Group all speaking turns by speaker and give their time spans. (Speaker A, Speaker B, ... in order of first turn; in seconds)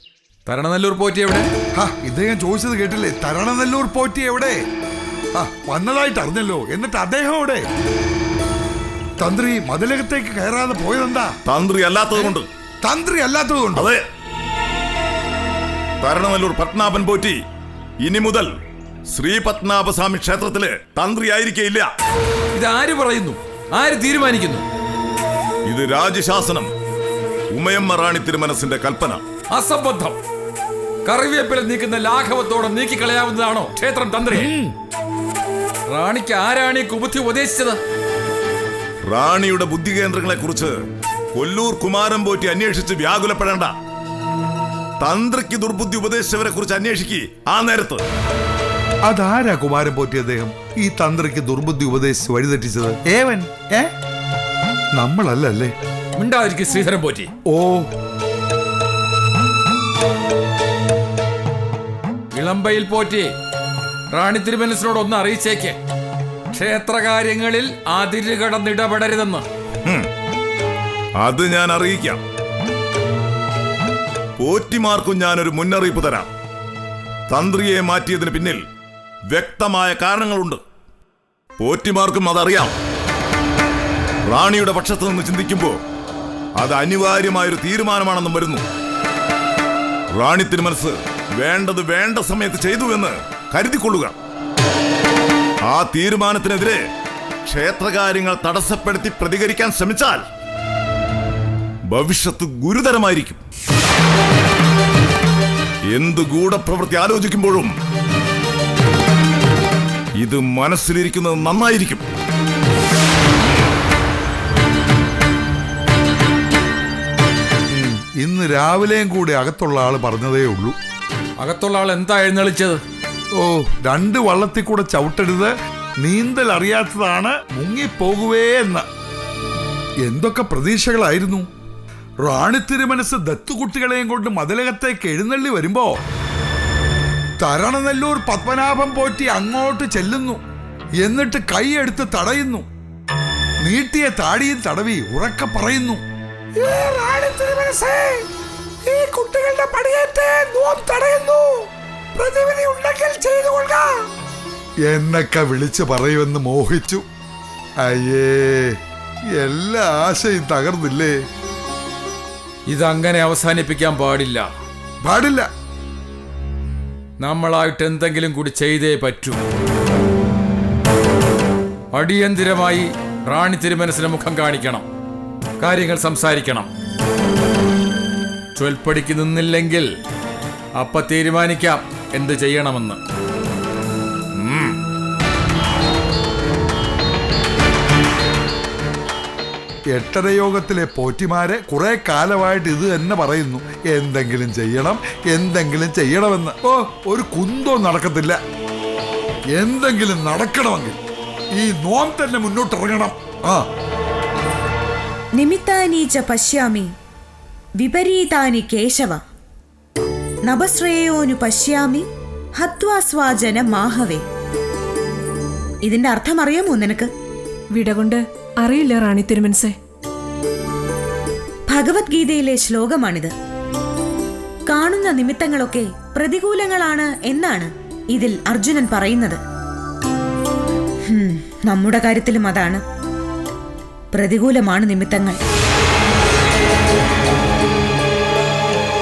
Speaker A: 0.5-1.5, 22.5-24.6, 29.5-30.2, 31.1-34.5, 35.9-37.8, 56.2-57.3, 62.3-63.3, 64.1-65.8, 66.5-69.5, 121.4-122.8, 162.7-164.5, 167.2-169.4, 171.9-174.8, 175.6-176.7, 178.6-179.9, 180.8-183.0, 184.3-184.8
Speaker B: 1.8-4.6, 5.3-7.6, 9.2-11.3, 12.1-13.9, 49.1-53.9, 55.0-55.7, 57.5-57.9, 117.7-120.8, 123.4-128.8, 130.0-131.5, 132.2-135.9, 137.4-140.4, 141.0-142.7, 143.6-146.0, 146.6-148.2, 148.8-153.9, 154.9-157.0, 157.8-158.8, 159.3-161.1, 165.0-165.5, 189.9-198.4, 199.6-201.0, 201.6-203.6
Speaker C: 11.5-12.5, 13.7-14.0, 16.0-17.4, 18.0-18.5, 19.1-21.9, 25.7-26.7, 27.5-29.2, 39.0-40.8, 41.4-43.7, 45.0-48.0, 71.2-72.2, 74.4-76.3, 77.3-78.6, 79.3-80.6, 81.6-82.8, 84.3-85.8, 86.6-88.6, 90.2-94.1, 95.7-96.8, 97.5-100.2, 101.9-103.4, 105.9-107.7, 110.2-112.0
Speaker D: 205.4-206.9, 207.8-209.2, 210.5-212.1, 212.6-214.2, 215.8-217.1, 221.7-223.3, 224.7-229.4, 231.1-232.8, 234.1-235.4
Speaker E: 217.7-219.8